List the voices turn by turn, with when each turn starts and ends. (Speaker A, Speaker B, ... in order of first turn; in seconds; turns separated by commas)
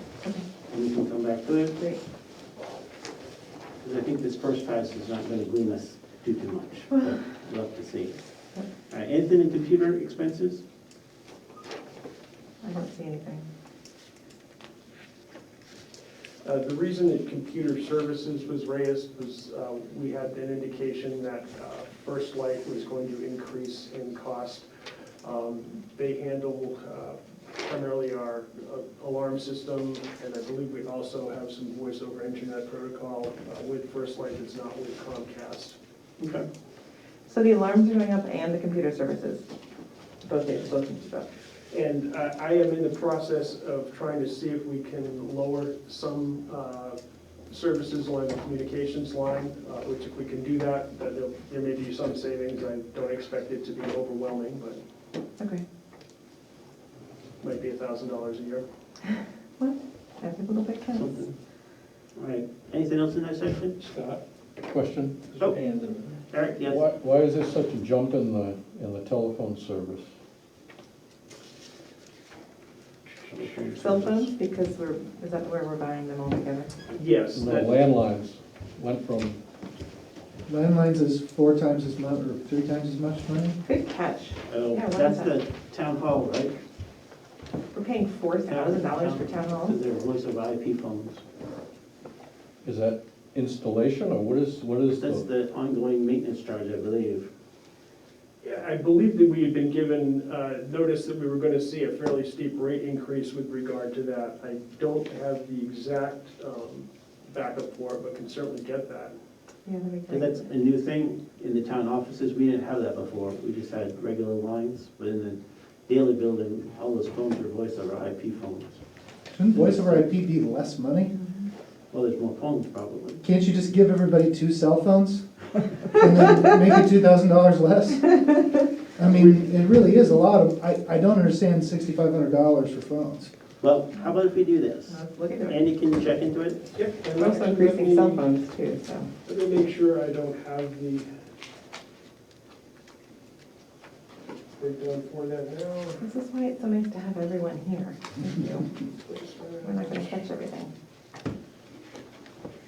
Speaker A: 0.2-0.5, Speaker B: 0.7-1.8, Speaker B: 3.8-10.6, Speaker A: 12.6-13.4, Speaker C: 16.4-24.7, Speaker C: 25.2-35.8, Speaker B: 36.2-36.5, Speaker A: 37.3-39.5, Speaker A: 40.2-41.3, Speaker C: 41.7-54.8, Speaker A: 55.4-55.6, Speaker C: 57.4-58.6, Speaker A: 59.6-61.2, Speaker B: 60.9-61.4, Speaker B: 62.1-63.8, Speaker C: 63.8-64.2, Speaker D: 64.7-66.0, Speaker C: 65.3-66.0, Speaker B: 66.3-66.9, Speaker D: 66.6-70.0, Speaker B: 73.2-74.3, Speaker A: 73.8-76.7, Speaker C: 76.9-77.8, Speaker D: 77.3-79.4, Speaker E: 80.5-83.6, Speaker A: 83.6-85.3, Speaker B: 84.5-86.6, Speaker A: 87.7-89.8, Speaker B: 88.4-91.2, Speaker D: 92.6-95.2, Speaker B: 94.9-97.3, Speaker C: 98.4-109.1, Speaker A: 109.6-110.5, Speaker B: 110.1-118.8, Speaker E: 119.3-121.2, Speaker B: 119.5-120.0, Speaker A: 121.1-121.5, Speaker B: 121.9-123.2, Speaker E: 123.2-133.3, Speaker B: 133.6-136.7, Speaker A: 134.9-135.6, Speaker C: 136.7-138.2, Speaker A: 137.2-139.1, Speaker C: 139.2-141.1, Speaker C: 144.6-146.0, Speaker A: 146.0-148.8, Speaker C: 148.8-150.2, Speaker A: 149.6-150.7